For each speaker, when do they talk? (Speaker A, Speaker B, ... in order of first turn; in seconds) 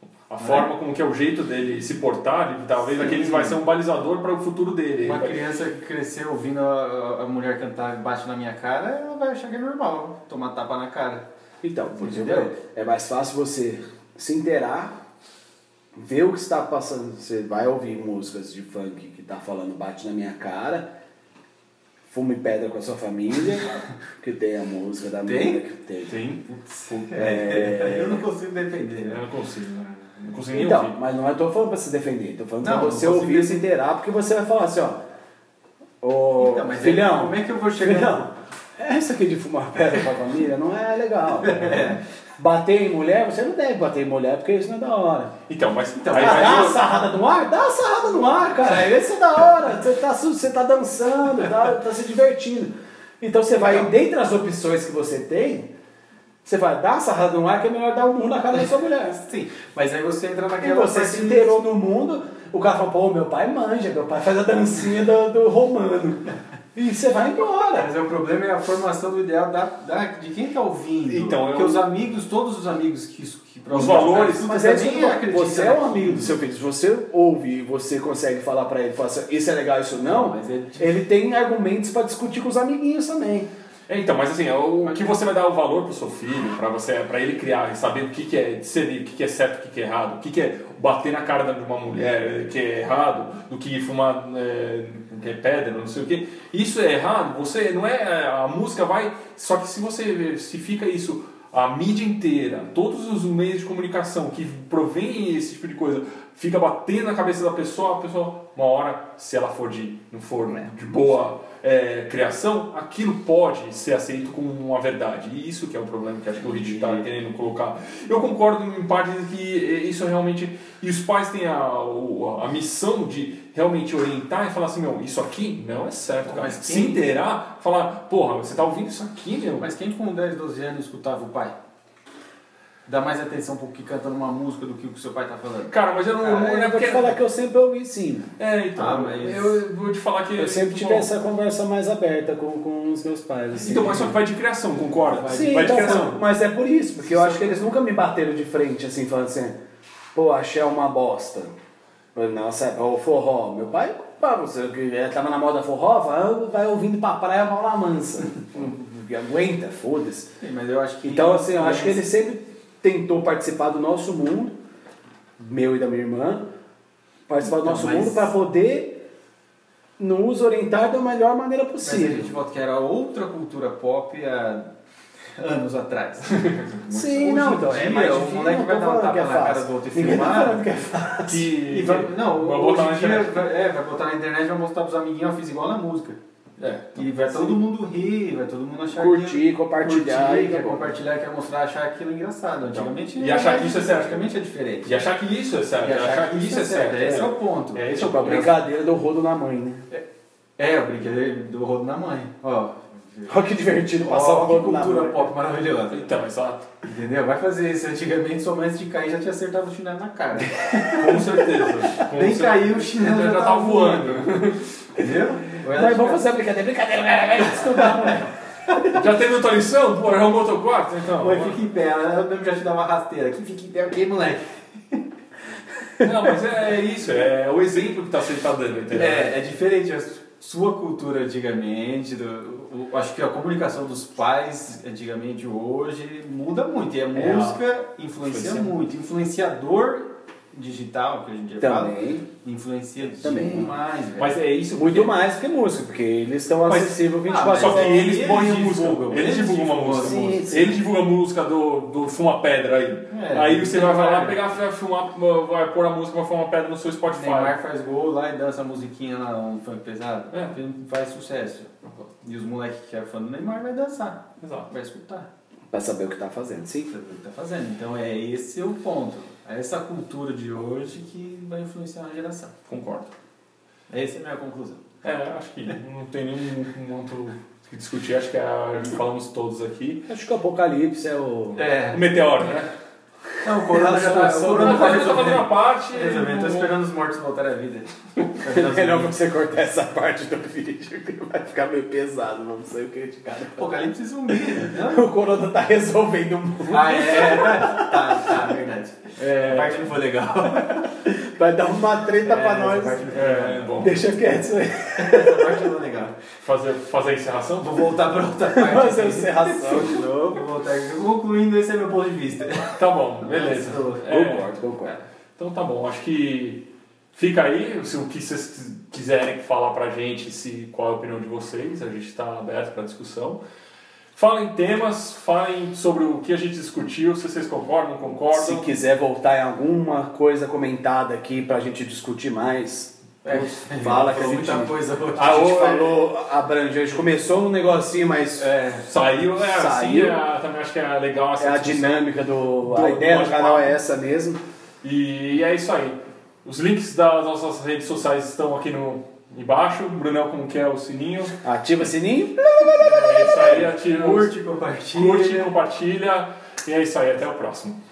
Speaker A: 0.3-5.4, 26.1-27.2, 29.0-30.9, 45.5-46.9, 71.1-71.9, 73.7-74.5, 83.9-129.7, 135.7-137.2, 138.4-141.1, 143.6-146.2, 181.2-183.4, 186.6-187.5, 192.7-194.3, 194.8-198.5, 205.9-206.7, 210.9-214.7, 218.9-221.6, 226.0-229.3, 237.2-237.6, 244.2-245.2, 247.4-257.6, 264.4-264.7, 272.7-273.1, 275.0-280.1, 281.9-282.7, 284.5-286.8, 299.2-299.9, 303.1-304.1, 306.4-307.8, 312.8-323.4, 324.1-328.7, 335.1-336.0, 338.8-342.1, 342.6-343.8, 344.8-351.3, 352.8-354.3, 354.9-357.8
Speaker B: 0.4-0.7, 2.9-3.6, 5.0-11.2, 12.0-12.5, 25.2-25.6, 26.5-29.2, 32.6-33.6, 36.4-38.2, 41.4-42.0, 46.0-46.9, 53.6-53.9, 59.1-61.6, 67.7-76.4, 80.0-81.0, 116.4-117.1, 126.2-127.1, 129.6-131.5, 132.9-136.5, 138.8-139.6, 145.1-146.1, 147.0-147.5, 160.4-162.0, 167.4-168.3, 171.8-174.7, 175.4-180.7, 181.7-186.2, 186.9-195.1, 195.8-198.5, 200.6-206.1, 206.8-211.4, 212.0-214.3, 214.9-216.2, 221.2-225.0, 228.9-244.4, 246.7-250.7, 253.1-254.4, 257.1-265.3, 266.9-272.5, 273.9-274.8, 281.6-282.2, 283.4-289.1, 293.6-295.1, 296.7-301.0, 302.2-303.9, 305.0-306.1, 307.6-314.0, 333.2-335.7, 338.4-338.9, 353.5-355.5
Speaker C: 11.6-15.0, 15.9-20.9, 22.1-26.1, 27.1-28.2, 30.5-35.0, 36.0-45.3, 46.2-55.7, 56.4-59.2, 60.6-67.9, 73.8-83.5, 136.2-138.3, 140.4-144.2, 145.3-149.6, 150.1-151.5, 152.1-160.3, 161.0-164.5, 165.4-166.5, 167.3-169.0, 170.0-172.3, 176.9-181.5, 188.9-190.9, 198.0-199.9, 203.3-205.3, 215.7-218.8, 241.6-242.2, 243.2-243.8, 244.7-248.2, 250.0-250.8, 265.7-266.9, 280.1-281.6, 283.6-285.4, 288.4-293.8, 294.5-298.3, 300.9-303.1, 303.8-305.7, 308.5-310.4, 314.1-315.0, 328.3-338.5, 339.4-340.2, 341.4-344.4, 351.4-353.7